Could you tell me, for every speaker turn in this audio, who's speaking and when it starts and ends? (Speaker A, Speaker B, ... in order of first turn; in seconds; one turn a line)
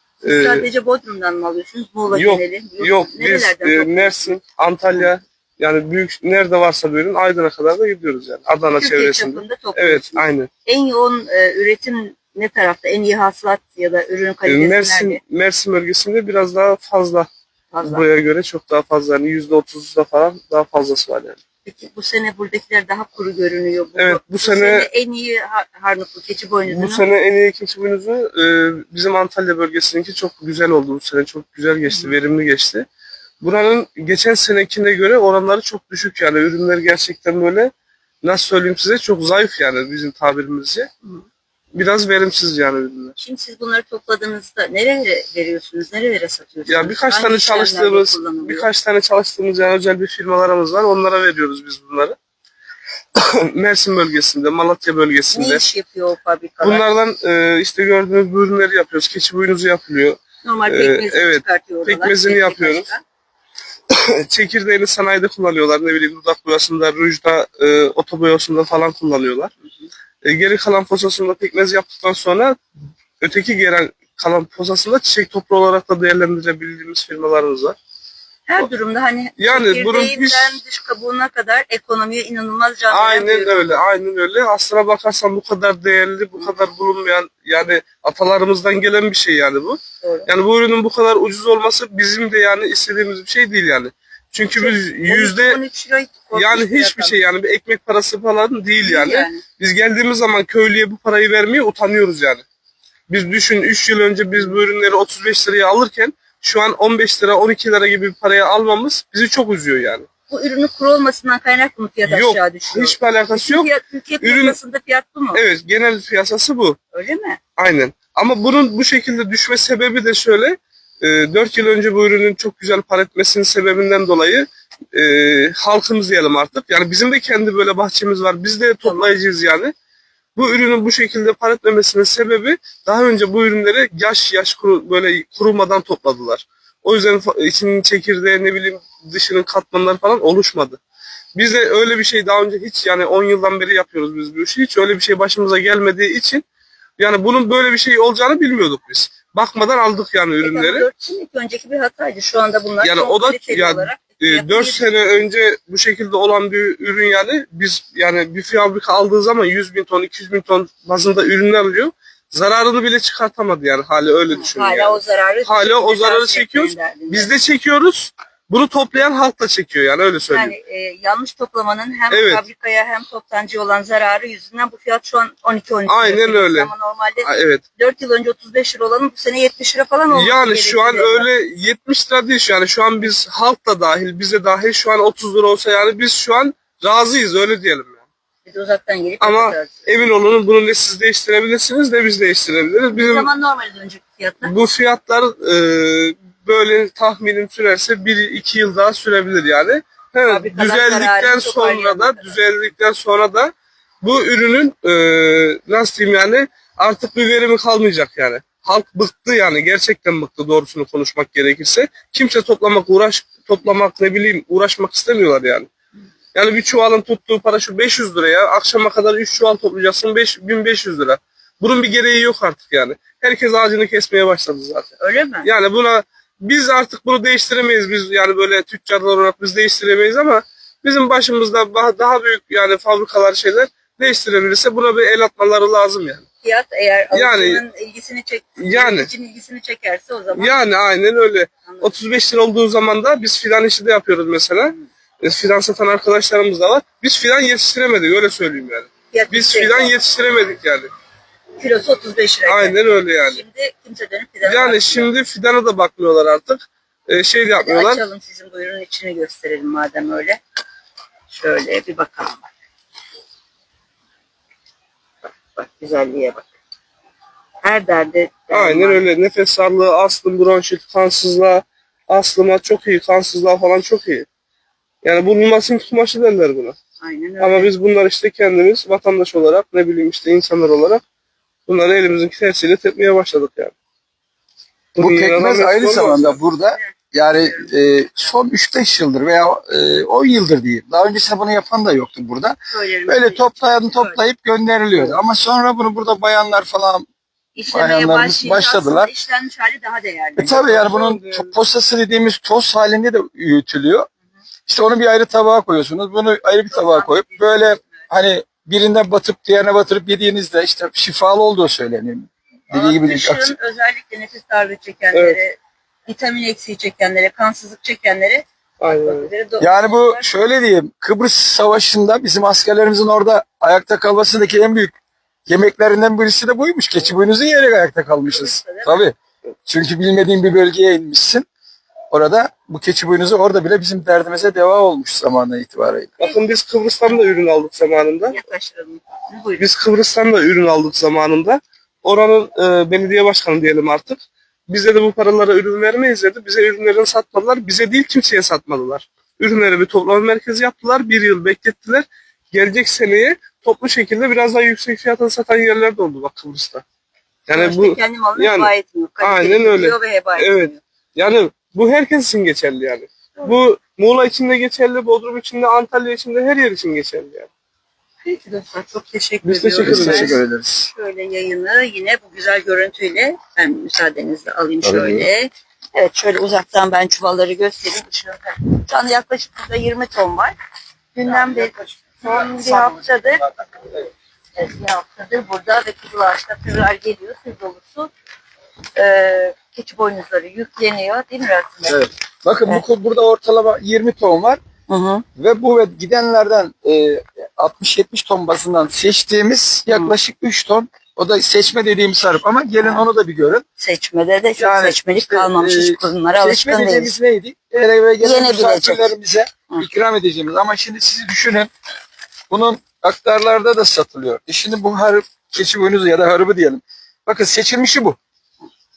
Speaker A: 0.2-0.7
Speaker B: 0.2-4.3
Speaker A: 2.1-10.5
Speaker B: 8.7-15.2
Speaker A: 14.4-17.3
Speaker B: 17.7-18.0
Speaker A: 17.8-21.4
Speaker B: 21.6-27.0
Speaker A: 24.0-24.9
Speaker A: 26.7-32.9
Speaker A: 33.4-37.7
Speaker A: 38.2-40.9
Speaker A: 41.7-43.2
Speaker B: 43.2-48.7
Speaker A: 46.7-52.1
Speaker A: 53.1-55.7
Speaker B: 55.3-56.9
Speaker A: 56.6-62.9
Speaker B: 60.4-63.0
Speaker A: 63.9-69.5
Speaker A: 70.2-72.6
Speaker A: 73.2-77.8
Speaker B: 78.5-83.8
Speaker A: 79.4-80.6
Speaker A: 82.9-95.6
Speaker B: 90.0-90.3
Speaker B: 94.5-97.2
Speaker A: 96.3-102.4
Speaker B: 98.8-99.4
Speaker A: 103.1-110.1
Speaker B: 110.3-115.4
Speaker A: 112.0-114.6
Speaker A: 115.3-116.8
Speaker B: 116.9-117.4
Speaker A: 117.6-129.7
Speaker B: 128.8-129.2
Speaker A: 130.3-140.8
Speaker A: 141.3-146.4
Speaker A: 147.0-150.9
Speaker B: 150.4-154.9
Speaker A: 152.8-170.5
Speaker B: 164.3-167.3
Speaker B: 170.3-181.3
Speaker A: 172.1-172.4
Speaker A: 175.9-176.7
Speaker A: 177.2-177.6
Speaker A: 180.1-188.0
Speaker B: 188.4-189.9
Speaker A: 189.2-193.3
Speaker B: 192.9-194.5
Speaker A: 194.4-215.7
Speaker B: 200.2-202.4
Speaker A: 216.3-224.9
Speaker B: 225.0-225.5
Speaker A: 225.4-236.2
Speaker B: 236.4-240.6
Speaker A: 237.1-237.6
Speaker A: 238.6-239.1
Speaker A: 240.3-250.9
Speaker B: 241.6-242.0
Speaker B: 249.1-249.9
Speaker B: 251.6-255.1
Speaker A: 252.4-253.4
Speaker A: 254.4-258.0
Speaker B: 257.6-260.4
Speaker B: 261.3-262.4
Speaker B: 265.4-266.5
Speaker B: 267.6-269.1
Speaker A: 268.5-274.2
Speaker A: 275.0-276.8
Speaker B: 277.0-277.7
Speaker A: 277.4-281.0
Speaker A: 281.7-283.7
Speaker A: 284.9-286.4
Speaker C: 284.9-297.1
Speaker B: 286.5-287.7
Speaker B: 292.7-294.2
Speaker B: 297.5-300.7
Speaker C: 297.7-299.1
Speaker C: 300.4-304.1
Speaker A: 300.5-301.5
Speaker C: 304.7-313.5
Speaker B: 306.7-308.0
Speaker B: 312.7-320.3
Speaker A: 315.1-315.4
Speaker A: 318.8-319.3
Speaker C: 319.6-324.9
Speaker C: 325.5-329.1
Speaker B: 328.2-329.1
Speaker C: 329.7-331.4
Speaker C: 332.1-336.2
Speaker A: 336.2-338.4
Speaker B: 338.3-339.7
Speaker A: 339.6-356.8
Speaker A: 357.5-367.5
Speaker B: 357.5-360.8
Speaker B: 368.2-380.5
Speaker A: 369.4-370.4
Speaker C: 369.8-370.9
Speaker C: 374.8-375.3
Speaker B: 381.1-383.4
Speaker C: 381.2-383.6
Speaker B: 384.5-388.1
Speaker B: 388.9-392.0
Speaker C: 391.9-394.6
Speaker B: 394.9-395.2
Speaker C: 395.4-403.6
Speaker B: 399.9-400.1
Speaker B: 402.8-403.1
Speaker B: 403.8-407.1
Speaker C: 404.6-411.7
Speaker B: 408.2-409.1
Speaker C: 412.5-418.2